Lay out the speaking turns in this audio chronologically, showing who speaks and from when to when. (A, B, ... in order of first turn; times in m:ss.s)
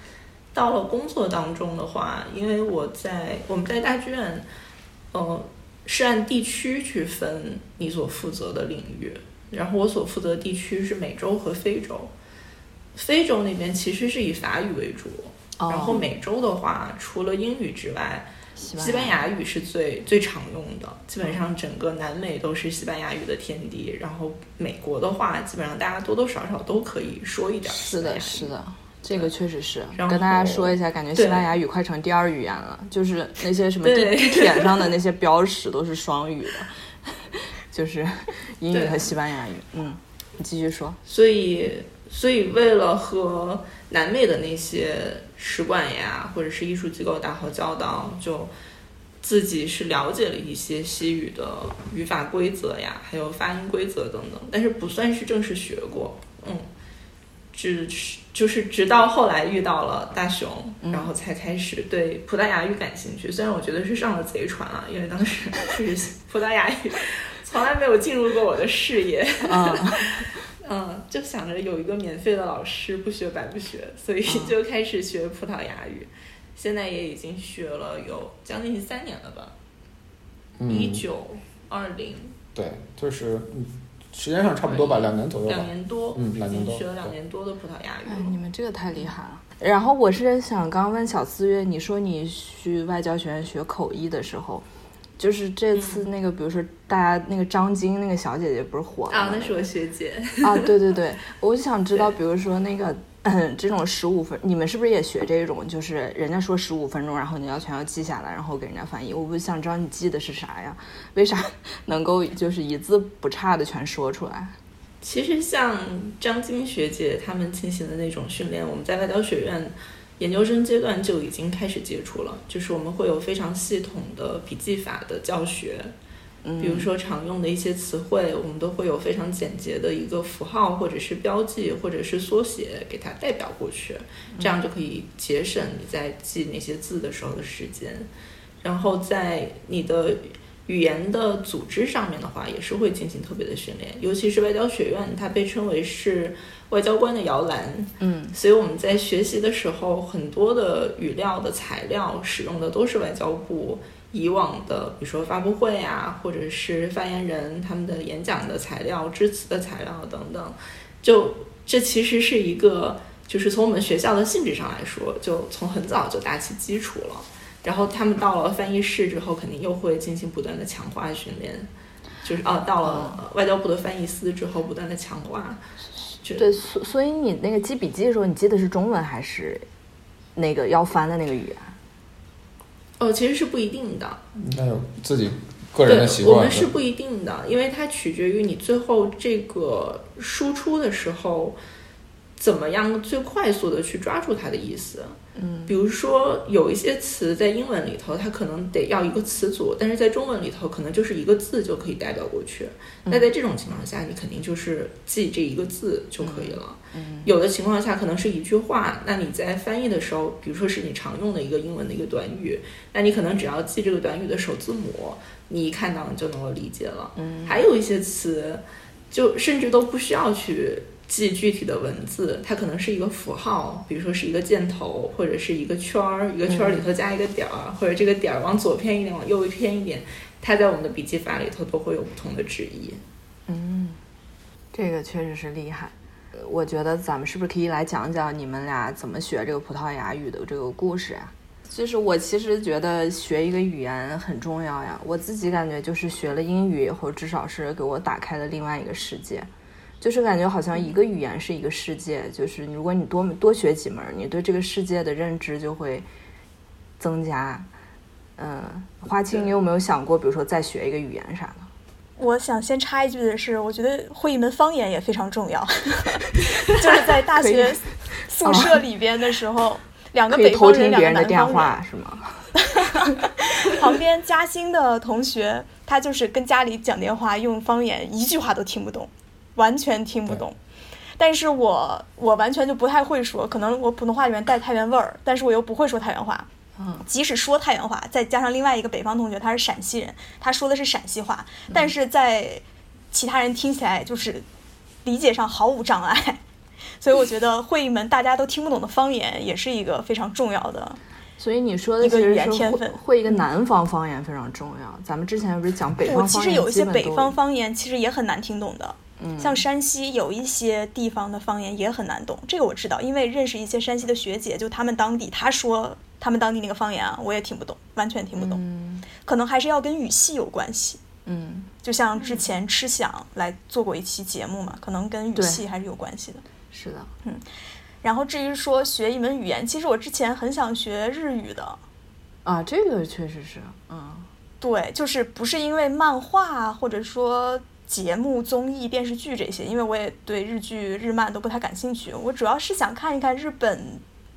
0:00.5-0:04.4 A
0:05.1-0:12.1 A
0:12.9-0:28.5 A
0:15.6-0:16.0 B
0:18.6-0:19.2 B
0:27.6-0:41.0 B
0:29.9-0:31.5 A
0:33.8-0:34.9 A
0:38.7-0:39.1 A
0:41.0-0:48.5 A
0:49.2-0:56.6 A
0:57.5-1:19.5 A
1:00.8-1:01.1 B
1:09.4-1:10.4 B
1:14.3-1:14.5 B
1:20.6-1:21.0 C
1:20.7-1:22.4 A
1:22.5-1:27.1 C
1:24.6-1:28.4 A
1:28.0-1:34.6 B
1:35.2-1:39.7 B
1:35.7-1:36.1 A
1:39.1-1:40.8 A
1:40.4-1:54.6 B
1:55.0-2:05.9 A
2:06.4-2:06.9 B
2:06.6-2:18.1 A
2:18.6-2:51.7 A
2:28.0-2:28.4 B
2:52.2-2:55.6 A
2:52.8-2:53.2 B
2:56.3-2:59.6 B
3:00.4-3:01.7 B
3:03.0-3:04.2 A
3:04.4-3:06.7 C
3:05.8-3:11.6 A
3:12.4-3:53.0 A
3:15.4-3:15.7 B
3:26.2-3:27.3 B
3:37.2-3:37.6 B
3:46.5-3:46.9 B
3:53.5-3:54.0 B
3:54.7-4:09.5 B
4:10.0-4:16.0 B
4:17.0-4:17.7 B
4:18.4-4:21.7 B
4:22.2-4:31.8 D
4:27.3-4:28.8 B
4:30.3-4:32.6 B
4:32.6-4:40.6 D
4:41.2-4:46.5 D
4:46.8-4:47.0 B
4:47.0-4:54.4 D
4:55.0-4:56.4 D
4:57.0-5:01.0 D
5:01.4-5:07.4 B
5:02.0-5:03.0 D
5:06.0-5:18.6 D
5:09.2-5:09.6 B
5:18.4-5:19.1 B
5:19.2-5:21.0 D
5:21.2-5:22.4 B
5:21.8-5:26.4 D
5:25.3-5:25.6 B
5:26.7-5:27.1 B
5:28.0-5:31.8 D
5:32.4-5:34.3 B
5:34.6-5:44.0 D